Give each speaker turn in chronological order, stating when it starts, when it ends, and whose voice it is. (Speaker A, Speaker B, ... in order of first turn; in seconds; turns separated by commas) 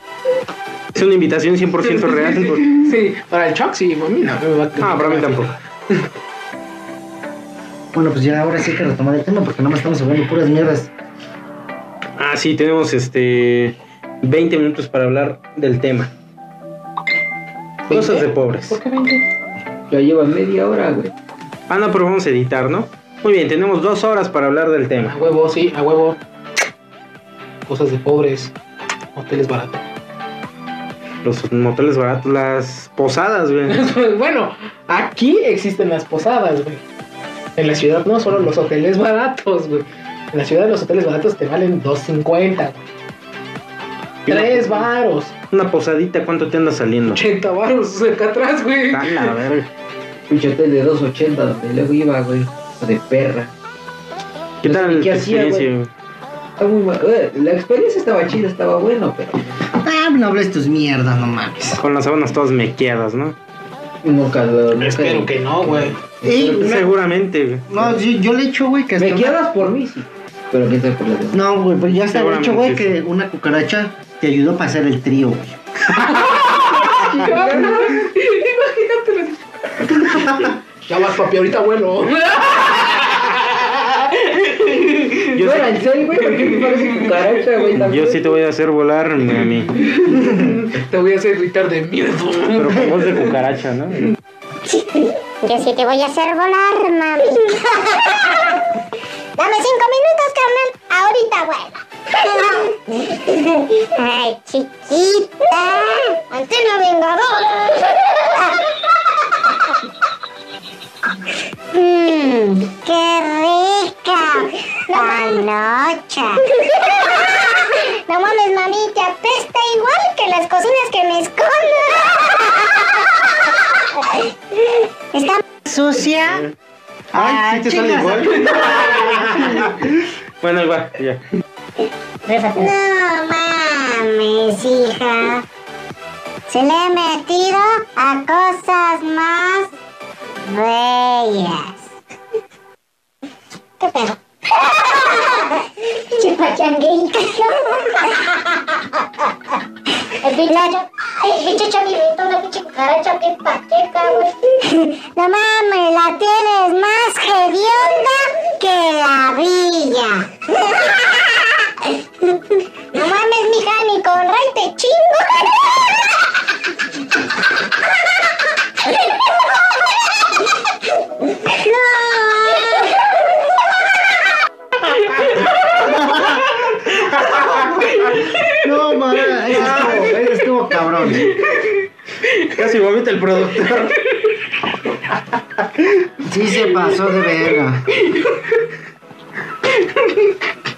Speaker A: 0.9-2.8, Speaker B: 1.9-5.5, Speaker A: 4.8-5.5, Speaker C: 7.9-10.9, Speaker A: 12.2-16.1, Speaker B: 17.9-19.3, Speaker A: 17.9-18.8, Speaker D: 19.9-21.1, Speaker A: 21.7-25.1, Speaker B: 25.1-26.2, Speaker B: 27.7-28.5, Speaker B: 29.1-29.8, Speaker A: 31.2-33.8, Speaker B: 33.7-36.8, Speaker B: 37.6-42.9, Speaker A: 44.3-44.9, Speaker B: 44.3-45.3, Speaker A: 45.5-47.2, Speaker B: 47.1-49.3, Speaker A: 48.9-49.7, Speaker D: 50.3-53.5, Speaker A: 54.6-55.9, Speaker D: 54.6-55.7, Speaker D: 56.6-59.5, Speaker C: 59.8-61.8, Speaker A: 61.8-63.4, Speaker D: 64.0-66.8, Speaker B: 64.7-66.0, Speaker C: 66.2-67.0, Speaker A: 66.6-67.7, Speaker C: 67.7-69.4, Speaker D: 69.0-71.4, Speaker C: 71.3-75.6, Speaker A: 72.1-73.0, Speaker A: 75.9-76.3, Speaker B: 76.1-85.3, Speaker D: 76.5-78.0, Speaker A: 85.3-85.9, Speaker D: 85.3-88.3, Speaker B: 86.3-87.1, Speaker A: 87.7-89.8, Speaker B: 89.9-93.2, Speaker A: 92.6-94.1, Speaker E: 94.7-98.7, Speaker E: 99.4-108.7, Speaker E: 111.7-125.5, Speaker C: 125.6-126.5, Speaker C: 127.1-129.7, Speaker A: 127.1-131.2, Speaker E: 132.3-135.4, Speaker E: 136.5-139.7, Speaker E: 140.4-141.9, Speaker E: 143.8-149.5, Speaker E: 150.1-166.2, Speaker E: 168.8-170.1, Speaker E: 171.3-173.7, Speaker B: 175.0-175.9, Speaker C: 175.8-176.5, Speaker A: 177.0-177.7, Speaker C: 177.6-181.3, Speaker B: 177.7-178.7, Speaker A: 179.6-180.1, Speaker B: 181.2-182.5, Speaker A: 182.5-184.1, Speaker C: 186.2-187.9, Speaker B: 187.9-188.6, Speaker B: 189.8-190.3